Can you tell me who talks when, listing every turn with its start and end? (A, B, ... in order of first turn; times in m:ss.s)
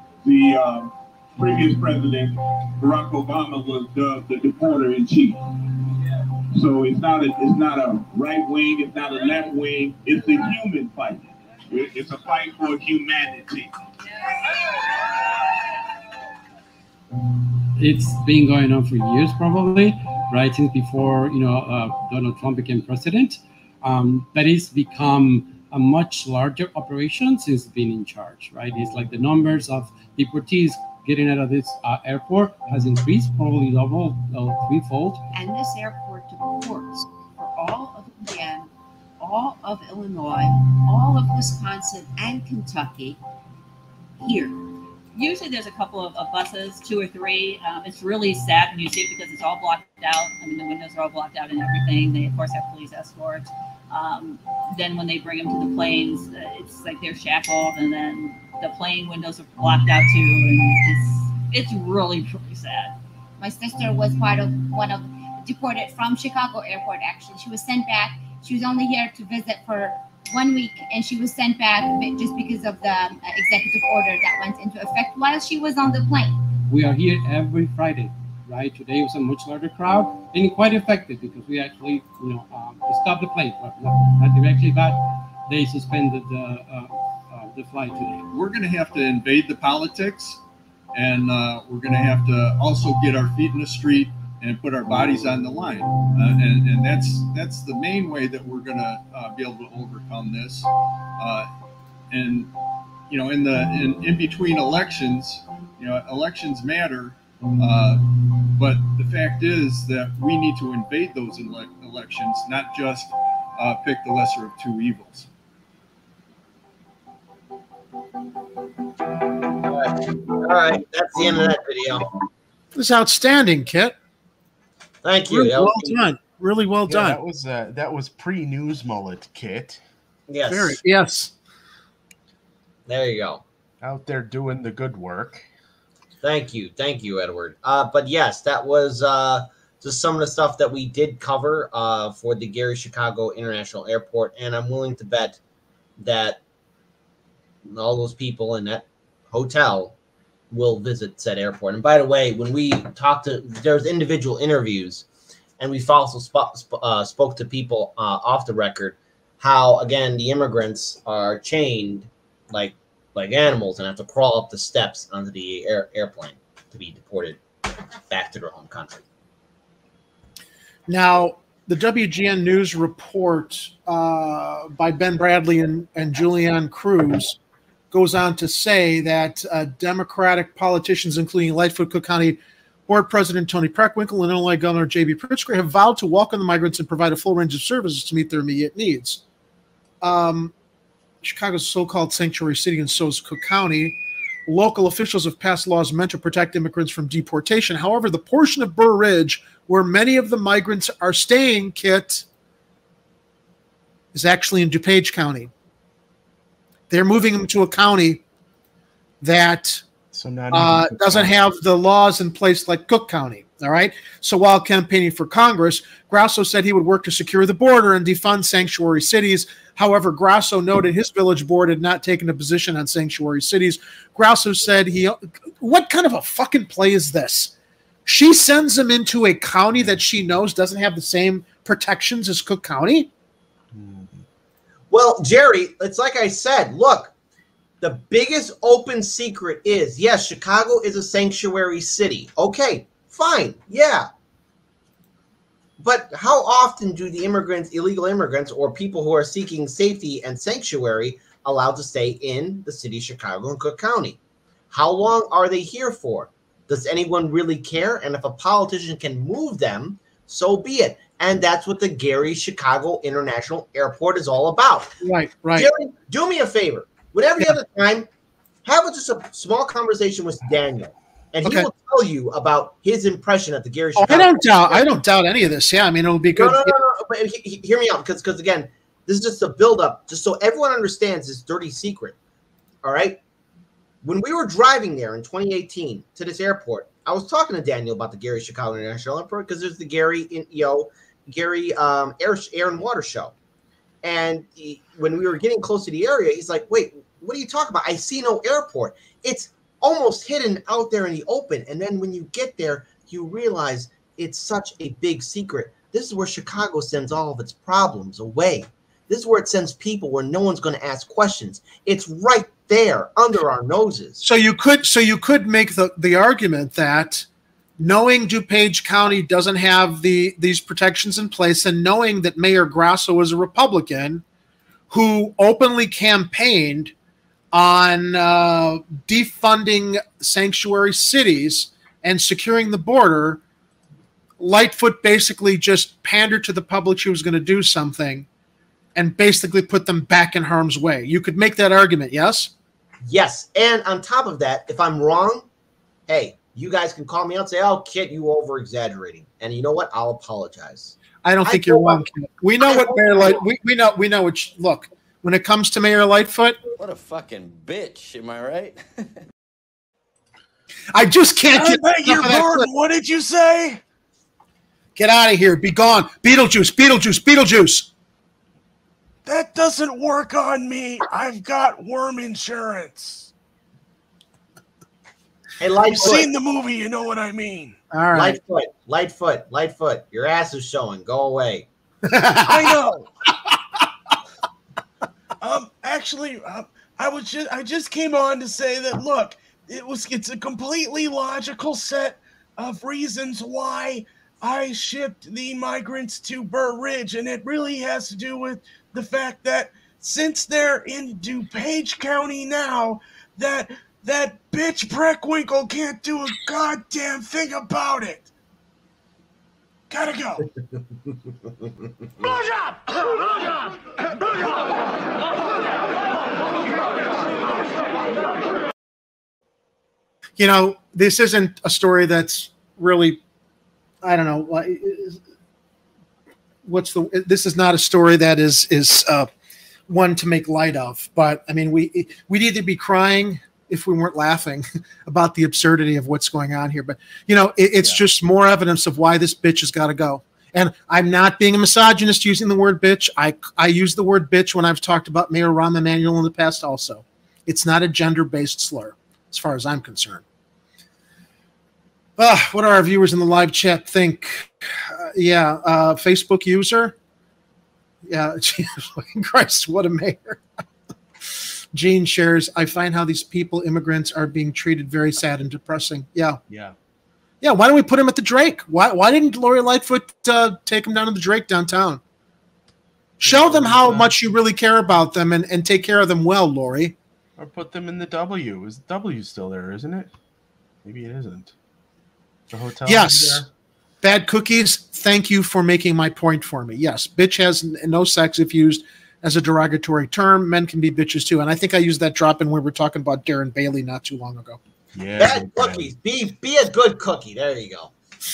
0:00.2-0:05.4 A
0:06.5-0:13.7 A
0:17.8-0:35.2 B
0:35.3-0:43.2 C
0:44.2-0:44.6 C
0:45.1-1:03.0 D
1:03.4-1:16.3 E
1:16.7-1:28.3 B
1:28.3-1:30.4 F
1:30.9-1:41.5 F
1:42.1-1:42.5 F
1:43.1-1:55.3 F
1:59.6-2:02.1 G
2:02.7-2:04.0 H
2:05.0-2:06.0 G
2:05.3-2:07.2 H
2:06.9-2:09.8 I
2:10.3-2:10.8 G
2:10.5-2:11.3 H
2:12.9-2:13.4 G
2:13.8-2:15.4 I
2:16.2-2:25.4 G
2:26.0-2:26.4 G
2:27.6-2:29.9 G
2:30.5-2:35.0 G
2:35.6-2:47.4 G
2:48.1-2:49.0 G
2:50.9-2:57.4 H
2:57.9-3:09.2 H
3:10.0-3:10.5 H
3:11.2-3:22.2 H
3:24.1-3:25.5 H
3:26.9-3:28.2 H
3:29.2-3:29.8 H
3:30.1-3:31.3 I
3:30.5-3:47.5 H
3:48.0-3:53.1 H
3:53.7-3:54.2 I
3:54.9-3:57.1 G
3:57.8-4:04.1 G
4:05.8-4:14.2 G
4:14.7-4:24.9 G
4:25.0-4:25.7 H
4:25.5-4:28.1 G
4:28.6-4:34.8 G
4:34.0-4:36.7 H
4:36.3-4:42.2 G
4:42.8-4:43.2 G
4:44.0-4:53.3 G
4:54.0-5:14.2 G
5:14.2-5:17.3 H
5:17.8-5:24.2 H
5:24.9-5:26.9 H
5:27.5-5:33.4 H
5:34.4-5:38.3 H
5:38.9-5:42.5 H
5:43.0-5:45.4 G
5:46.1-5:52.0 G
5:51.2-5:56.6 H
5:52.6-5:53.4 G
5:56.8-5:59.1 J
6:00.9-6:02.7 H
6:01.5-6:03.8 I
6:05.0-6:07.9 H
6:09.2-6:13.3 I
6:15.6-6:16.3 G
6:15.9-6:17.8 I
6:17.9-6:18.4 H
6:18.1-6:21.7 G
6:22.1-6:22.7 H
6:22.4-6:23.1 I
6:25.4-6:48.3 I
6:49.9-6:50.4 I
7:00.4-7:03.2 H
7:04.0-7:05.2 H
7:06.6-7:09.3 H
7:09.9-7:30.2 H
7:17.8-7:18.0 I
7:32.2-7:36.9 H
7:38.0-7:40.4 H
7:41.7-7:46.4 H
7:46.5-7:46.7 I
7:47.4-7:52.0 H
7:53.2-7:57.0 H
7:53.2-7:54.1 I
7:57.4-8:00.1 I
8:00.8-8:01.5 I
8:02.5-8:03.5 I
8:02.8-8:03.4 H
8:04.0-8:14.6 H
8:14.9-8:15.8 I
8:15.2-8:17.9 G